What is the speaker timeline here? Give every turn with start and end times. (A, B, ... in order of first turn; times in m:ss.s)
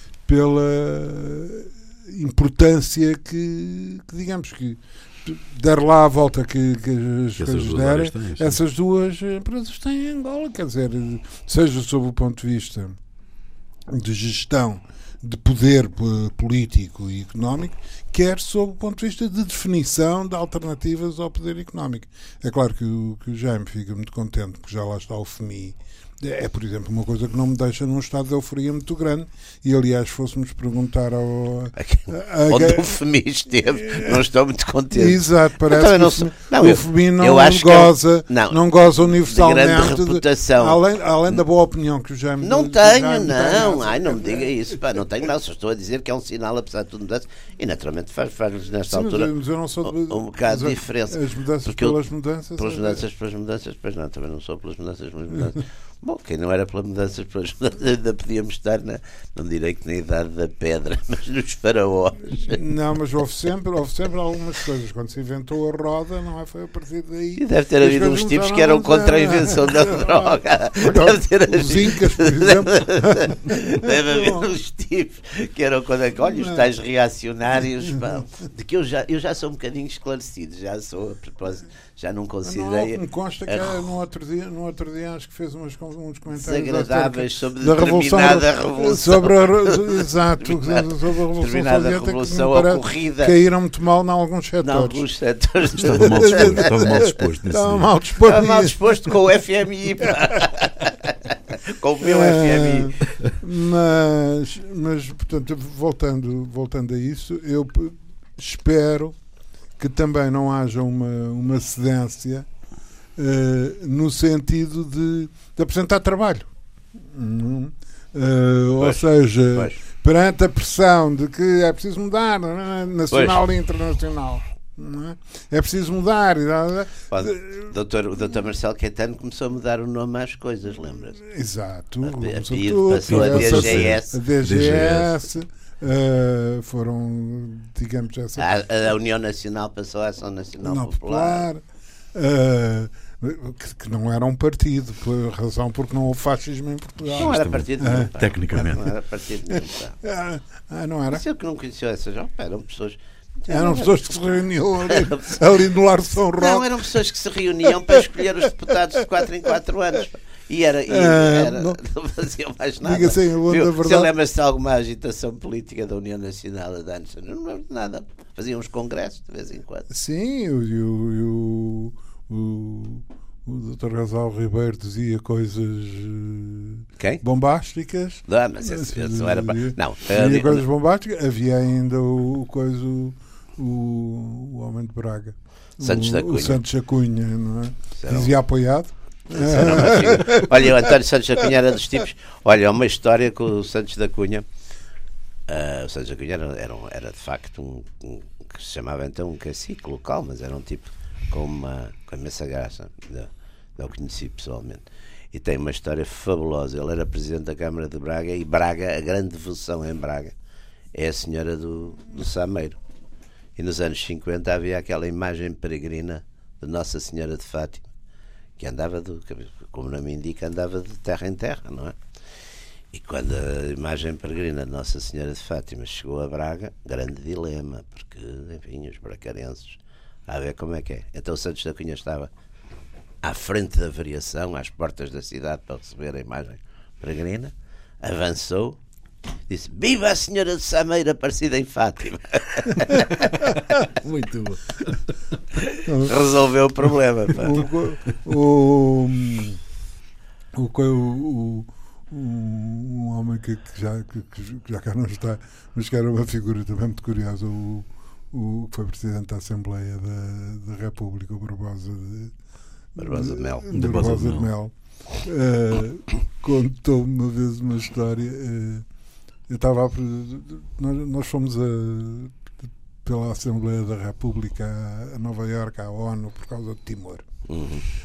0:00.3-0:13.0 A
0:07.4-0:08.6 B
0:13.9-0:33.0 A
0:31.8-0:40.8 C
0:33.7-0:34.3 A
0:34.9-0:45.0 A
0:42.4-0:49.3 C
0:48.9-0:53.0 A
0:49.8-0:52.0 C
0:52.6-1:02.6 C
1:02.4-1:14.5 A
1:07.4-1:23.8 C
1:16.2-1:16.7 A
1:22.4-1:35.0 A
1:26.3-1:33.4 C
1:34.6-1:37.1 C
1:35.8-1:37.9 B
1:35.8-1:39.2 A
1:38.2-1:43.1 C
1:40.1-1:40.5 A
1:42.0-1:49.2 A
1:49.8-1:52.5 A
1:53.2-2:07.7 A
1:59.5-1:59.8 C
2:03.1-2:03.4 C
2:07.1-2:11.2 C
2:11.2-2:18.6 A
2:12.0-2:14.2 C
2:13.1-2:15.1 B
2:18.4-2:21.5 C
2:20.6-2:21.6 A
2:22.1-2:28.8 A
2:27.1-2:28.9 B
2:27.2-2:30.0 C
2:29.6-2:31.2 A
2:31.1-2:35.4 C
2:33.5-2:36.7 A
2:36.4-2:49.9 C
2:37.7-2:38.2 A
2:40.9-2:41.8 A
2:42.8-2:44.1 A
2:49.9-3:10.9 A
2:57.0-2:57.2 C
2:58.3-3:00.6 C
3:05.8-3:06.6 C
3:08.0-3:08.3 C
3:09.3-3:14.4 C
3:15.5-3:30.3 C
3:30.9-3:32.8 C
3:33.6-3:37.9 C
3:38.6-3:42.0 C
3:42.9-3:52.3 C
3:53.2-3:58.8 C
3:59.5-4:03.5 C
4:03.5-4:05.8 B
4:05.8-4:06.2 A
4:06.0-4:07.7 C
4:07.3-4:09.6 A
4:10.5-4:22.4 A
4:23.0-4:28.8 A
4:23.0-4:23.7 C
4:23.7-4:24.5 B
4:29.5-4:32.4 A
4:33.0-4:37.2 A
4:37.5-4:37.8 C